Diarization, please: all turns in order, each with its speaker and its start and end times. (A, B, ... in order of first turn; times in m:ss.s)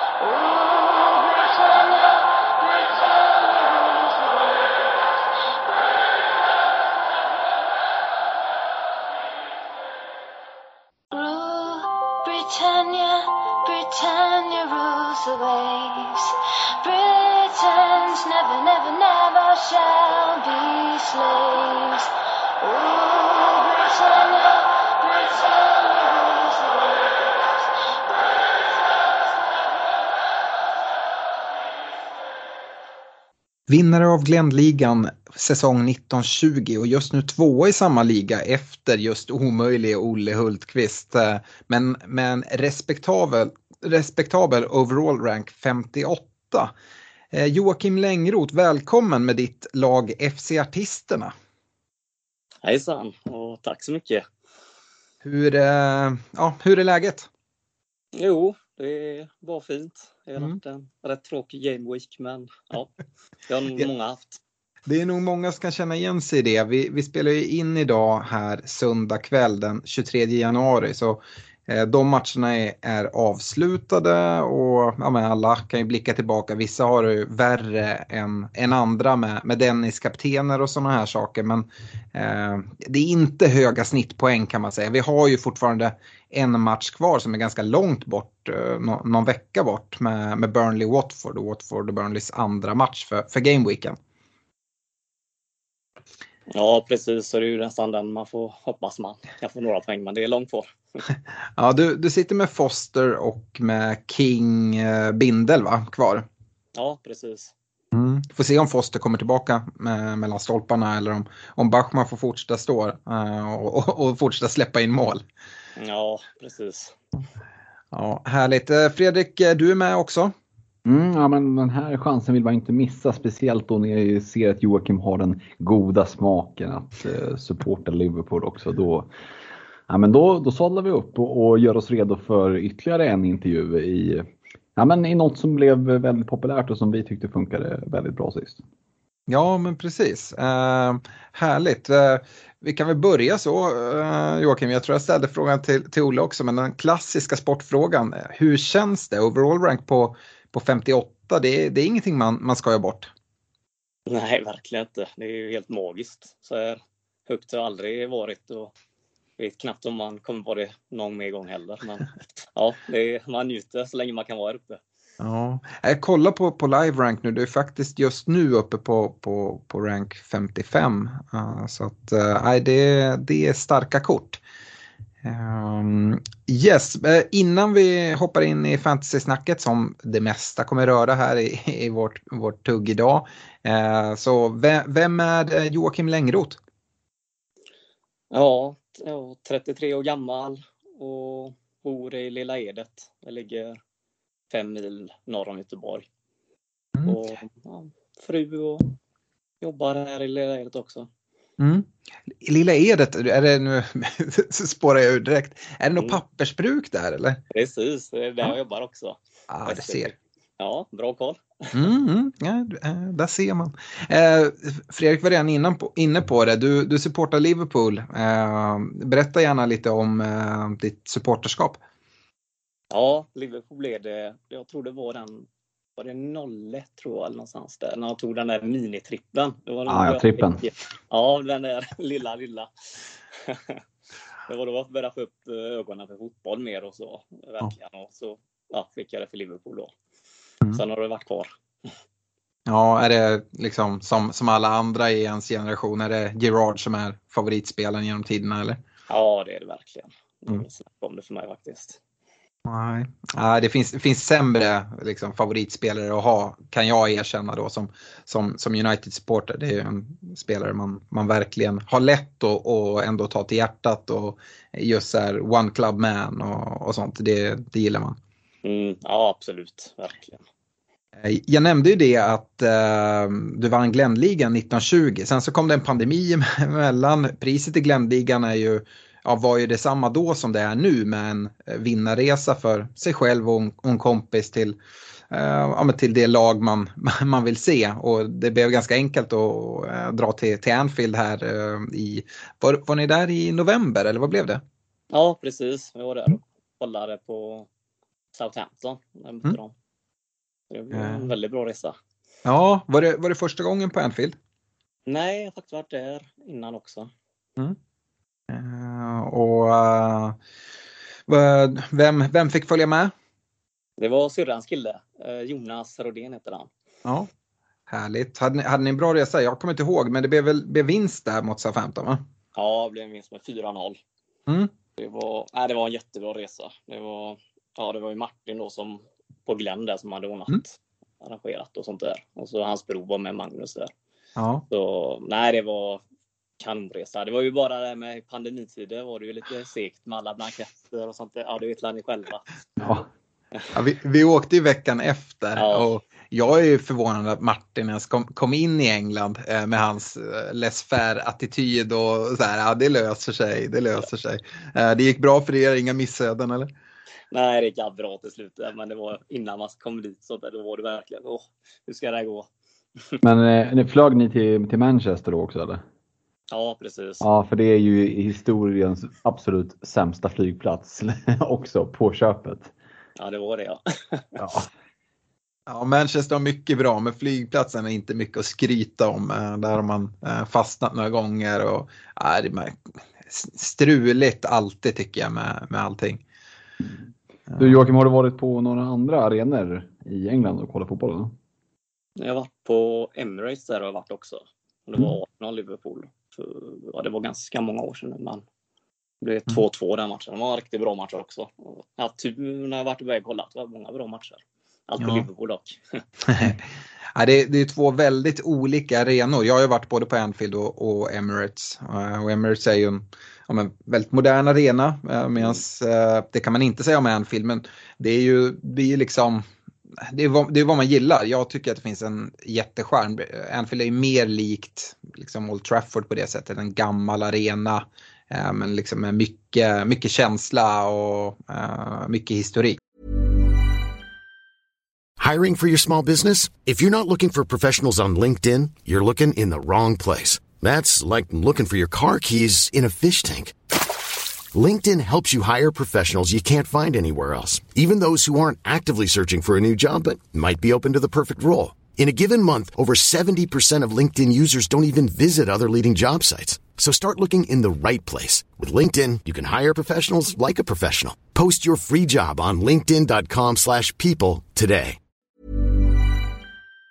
0:00.2-0:05.1 A
0:11.1-0:28.8 A
0:33.7-0:46.7 B
0:47.3-0:51.3 B
0:52.6-0:54.2 C
0:55.2-0:57.3 B
0:58.1-1:02.9 C
1:03.5-1:04.4 C
1:04.9-1:34.0 B
1:36.5-1:41.0 C
1:41.6-1:46.2 B
1:46.7-1:47.5 C
1:47.9-1:55.2 B
1:55.8-1:57.0 C
1:57.9-2:00.3 B
2:00.8-2:09.1 D
2:09.9-2:18.6 D
2:19.3-2:33.1 B
2:34.1-2:38.7 C
2:39.4-2:44.8 C
2:45.2-2:54.4 B
2:55.2-3:06.6 B
3:08.3-3:13.8 C
3:14.5-3:16.0 C
3:17.0-3:18.9 C
3:19.6-3:21.1 C
3:21.6-3:21.9 B
3:22.4-3:27.4 B
3:27.5-3:31.8 C
3:29.5-3:30.1 B
3:31.7-3:41.8 B
3:42.9-3:52.7 C
3:49.9-3:50.6 D
3:53.4-3:53.8 C
3:54.5-3:59.9 C
4:00.7-4:01.9 C
4:02.7-4:08.8 B
4:09.1-4:12.0 C
4:12.6-4:28.2 B
4:28.6-4:30.4 C
4:31.2-4:44.8 B
4:45.3-4:54.6 B
4:55.1-4:57.7 C
4:58.3-4:59.7 C
5:00.7-5:01.9 C
5:00.9-5:01.3 B
5:02.4-5:04.4 B
5:05.1-5:07.1 C
5:08.5-5:10.4 B
5:11.3-5:13.1 B
5:14.0-5:16.7 C
5:17.9-5:22.2 B
5:22.5-5:24.0 C
5:25.0-5:33.9 C
5:34.4-5:34.6 B
5:34.7-5:36.0 C
5:36.6-5:42.5 C
5:42.8-5:43.0 D
5:43.7-5:56.7 B
5:45.6-5:45.9 C
5:57.3-6:02.5 C
6:03.2-6:05.8 D
6:06.5-6:07.2 C
6:07.2-6:12.7 D
6:13.2-6:14.4 C
6:14.4-6:14.7 D
6:15.7-6:26.2 B
6:27.6-6:31.3 D
6:32.2-6:38.4 C
6:39.2-6:46.0 C
6:45.0-6:45.3 B
6:46.3-6:46.6 B
6:47.1-6:59.4 B
6:55.4-6:55.6 C
7:00.0-7:12.8 B
7:15.2-7:23.6 E
7:24.5-7:45.0 E